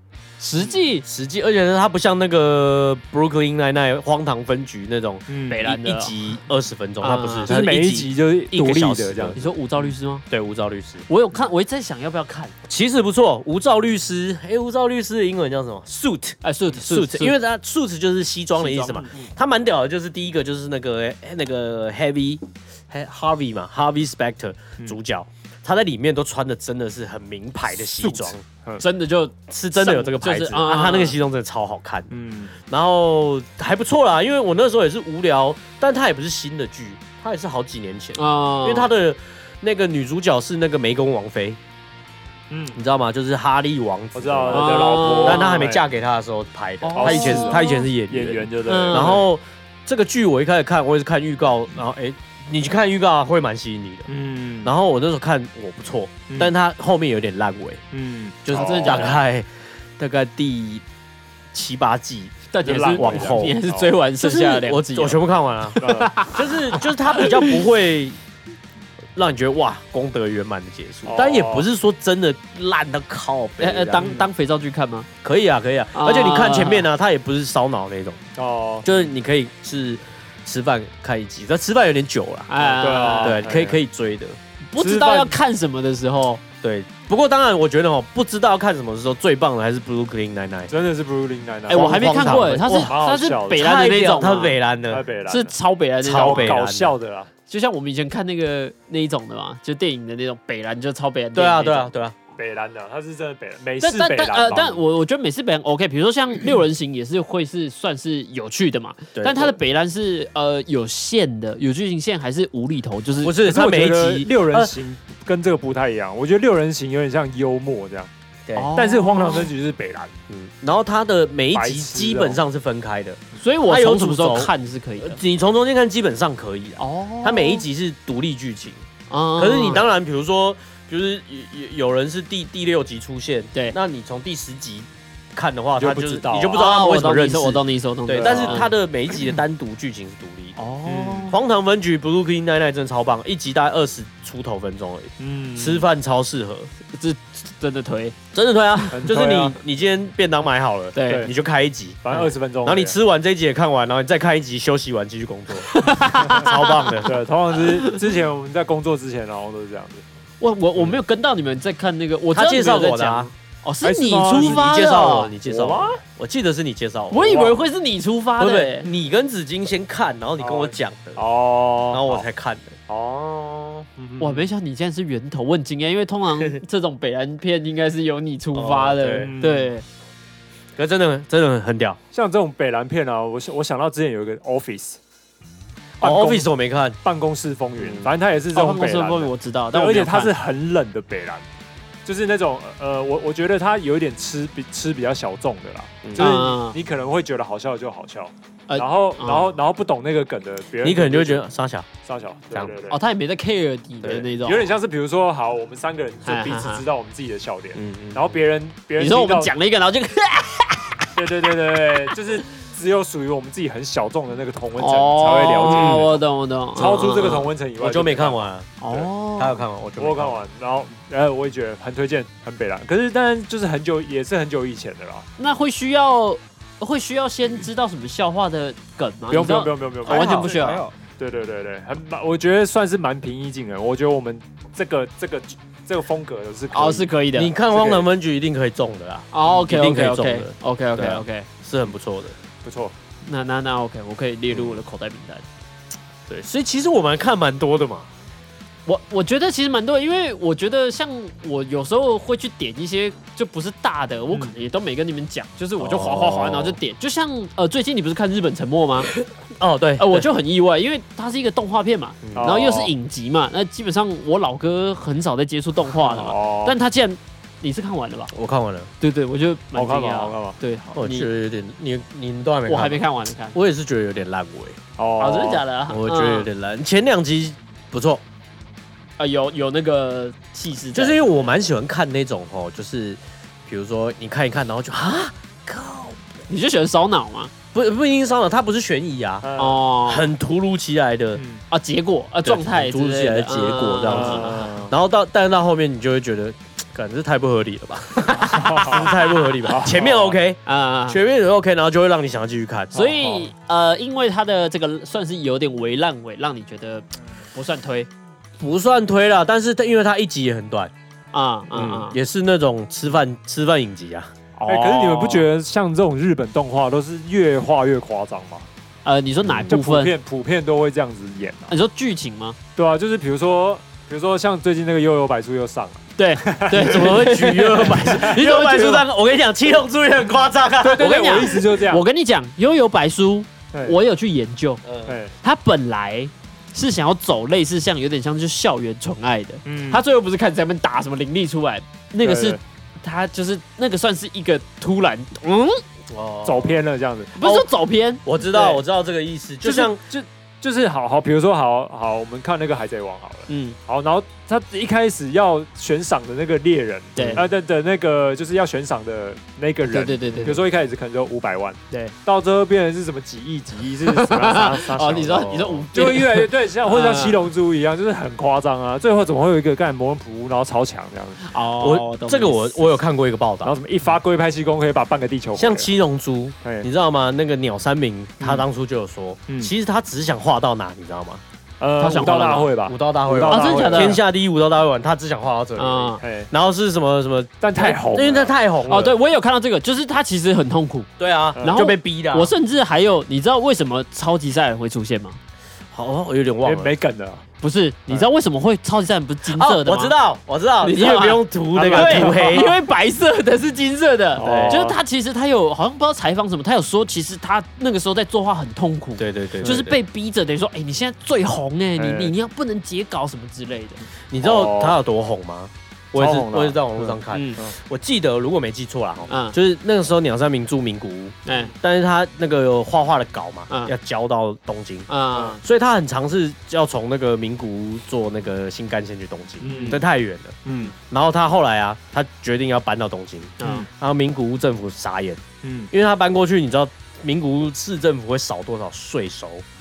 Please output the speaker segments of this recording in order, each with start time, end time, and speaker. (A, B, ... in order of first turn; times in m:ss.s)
0:00.4-0:01.0 A
0:01.0-0:09.4 B
0:05.3-0:05.6 C
0:05.5-0:06.1 A
0:07.0-0:07.5 A
0:07.5-0:09.8 C
0:09.3-0:10.2 A
0:10.3-0:11.1 B
0:11.1-0:12.5 A
0:12.6-0:28.4 B
0:16.4-0:17.4 A
0:18.6-0:19.1 A
0:28.0-0:28.8 C
0:28.8-0:31.2 A
0:29.5-0:32.1 B
0:32.1-0:32.5 C
0:32.7-0:41.6 B
0:38.2-0:38.9 A
0:42.5-0:42.8 C
0:42.7-0:54.1 B
0:44.1-0:45.8 C
0:44.5-0:45.7 A
0:46.8-0:47.9 A
0:46.9-0:49.3 C
0:48.6-0:49.2 A
0:54.1-0:54.7 C
0:54.6-0:57.8 B
0:57.9-0:59.2 C
0:58.4-1:00.8 B
0:58.5-0:59.2 A
1:01.5-1:03.6 B
1:02.5-1:07.6 A
1:02.6-1:03.9 C
1:04.2-1:08.2 B
1:05.8-1:06.1 C
1:09.1-1:14.2 B
1:11.0-1:11.7 C
1:13.6-1:15.1 A
1:14.0-1:14.3 C
1:15.2-1:18.2 B
1:15.9-1:16.9 A
1:18.4-1:18.9 C
1:18.8-1:24.4 B
1:22.5-1:23.4 A
1:22.8-1:23.8 C
1:24.7-1:26.4 A
1:24.8-1:25.3 C
1:26.6-1:30.7 B
1:30.7-1:33.7 C
1:31.7-1:33.0 B
1:31.7-1:34.6 A
1:33.5-1:35.1 B
1:34.9-1:35.5 C
1:35.3-1:36.6 A
1:36.0-1:36.9 B
1:36.0-1:37.3 C
1:37.5-1:41.9 A
1:41.3-1:42.1 B
1:42.4-1:44.8 C
1:43.8-1:53.4 A
1:49.2-1:49.6 B
1:53.2-1:54.7 B
1:53.4-1:58.1 C
1:58.5-1:59.5 A
1:58.7-2:00.1 C
2:00.3-2:08.8 B
2:01.5-2:02.4 C
2:03.4-2:05.2 A
2:06.8-2:07.6 A
2:09.1-2:09.8 A
2:09.4-2:20.6 B
2:15.8-2:16.6 C
2:16.5-2:18.7 A
2:18.2-2:18.6 C
2:20.6-2:21.4 A
2:20.8-2:21.3 C
2:21.3-2:26.7 B
2:25.2-2:25.9 C
2:26.9-2:28.2 A
2:28.3-2:37.1 B
2:28.9-2:29.6 C
2:31.0-2:31.3 A
2:32.0-2:33.0 C
2:35.6-2:36.9 A
2:37.0-2:40.0 C
2:37.6-2:38.0 A
2:40.4-2:45.3 A
2:42.3-2:43.3 B
2:43.8-2:44.7 C
2:44.3-2:47.6 B
2:45.4-2:46.0 C
2:47.1-2:48.9 A
2:48.4-2:51.2 B
2:50.4-2:52.2 C
2:51.9-2:52.8 B
2:52.9-2:54.5 C
2:54.2-2:59.8 A
2:58.5-2:59.3 B
2:59.2-2:59.7 C
3:00.8-3:02.0 B
3:02.1-3:05.0 C
3:06.0-3:06.5 C
3:06.0-3:07.0 B
3:07.0-3:11.4 C
3:07.8-3:08.1 B
3:08.5-3:10.3 A
3:12.0-3:21.4 C
3:16.0-3:16.3 B
3:16.1-3:16.8 A
3:18.7-3:19.6 A
3:20.8-3:21.9 B
3:22.0-3:23.0 C
3:22.9-3:24.7 A
3:24.0-3:24.3 B
3:24.4-3:29.5 C
3:26.2-3:26.8 A
3:27.8-3:28.4 B
3:29.0-3:31.1 A
3:31.1-3:36.2 C
3:34.8-3:37.5 A
3:35.6-3:36.1 B
3:36.8-3:39.1 C
3:37.0-3:38.8 B
3:38.8-3:39.6 A
3:39.4-3:40.4 B
3:40.0-3:45.2 C
3:45.4-3:50.8 A
3:49.3-3:57.1 C
3:50.0-3:50.9 B
3:56.7-3:57.5 A
3:57.3-4:02.3 B
3:57.7-3:58.0 C
3:59.3-4:01.5 A
4:02.6-4:02.9 C
4:03.2-4:05.4 A
4:04.5-4:04.8 B
4:06.3-4:08.1 B
4:08.8-4:19.1 A
4:15.8-4:16.8 B
4:19.2-4:20.3 B
4:20.0-4:28.3 A
4:22.2-4:22.5 B
4:22.3-4:22.9 C
4:26.0-4:26.7 C
4:28.3-4:28.9 B
4:29.0-4:31.3 A
4:29.7-4:30.6 C
4:30.9-4:34.8 B
4:32.7-4:33.6 A
4:35.0-4:35.6 C
4:35.2-4:36.5 A
4:35.9-4:38.2 B
4:39.2-4:41.5 A
4:40.9-4:46.2 B
4:46.5-4:47.5 A
4:47.7-4:49.5 B
4:49.4-4:49.8 C
4:49.6-4:50.3 A
4:50.0-4:51.4 B
4:51.4-4:51.6 C
4:51.7-4:54.8 A
4:52.4-5:03.0 B
4:54.1-4:54.9 C
4:58.4-5:00.4 C
5:00.6-5:01.2 A
5:02.9-5:08.1 A
5:03.0-5:03.4 C
5:08.6-5:10.9 B
5:11.3-5:12.2 A
5:11.7-5:14.3 B
5:14.6-5:15.4 A
5:14.7-5:18.7 C
5:19.0-5:20.1 A
5:19.4-5:19.7 B
5:19.7-5:21.7 C
5:21.7-5:22.6 A
5:22.8-5:28.7 C
5:26.2-5:29.0 A
5:26.7-5:31.6 B
5:30.8-5:32.0 C
5:30.8-5:34.8 A
5:34.8-5:35.2 B
5:35.1-5:35.3 C
5:35.4-5:45.8 A
5:39.6-5:40.0 C
5:42.2-5:42.6 C
5:46.1-5:46.8 B
5:46.4-5:47.3 C
5:47.3-5:48.8 A
5:47.4-5:47.7 B
5:48.2-5:50.0 B
5:49.6-6:11.4 C
5:53.5-5:53.8 A
5:57.2-5:57.4 A
5:57.2-5:57.5 B
5:59.9-6:00.6 A
6:04.0-6:07.4 A
6:05.3-6:05.8 B
6:11.4-6:12.9 A
6:11.8-6:13.7 B
6:13.6-6:15.9 C
6:15.6-6:21.4 B
6:21.8-6:24.2 C
6:22.0-6:22.7 A
6:22.8-6:29.1 B
6:23.5-6:24.2 A
6:25.8-6:26.2 A
6:26.2-6:26.5 C
6:27.6-6:28.5 C
6:28.9-6:31.1 A
6:31.2-6:32.5 B
6:31.6-6:31.8 C
6:31.6-6:35.4 A
6:35.9-6:36.9 B
6:36.6-6:37.4 C
6:37.6-6:40.1 A
6:39.5-6:42.8 B
6:40.8-6:54.0 A
6:41.7-6:42.7 C
6:44.4-6:45.0 C
6:44.4-6:44.8 B
6:49.2-6:50.0 B
6:52.0-6:52.3 C
6:54.3-7:19.6 B
6:54.4-6:55.0 C
6:56.1-6:57.7 C
6:57.3-6:57.6 A
6:59.3-6:59.6 A
7:01.4-7:01.7 A
7:05.1-7:05.6 A
7:09.6-7:10.0 C
7:09.6-7:10.0 A
7:10.6-7:10.9 C
7:13.6-7:13.8 A
7:13.6-7:13.9 C
7:15.6-7:15.9 C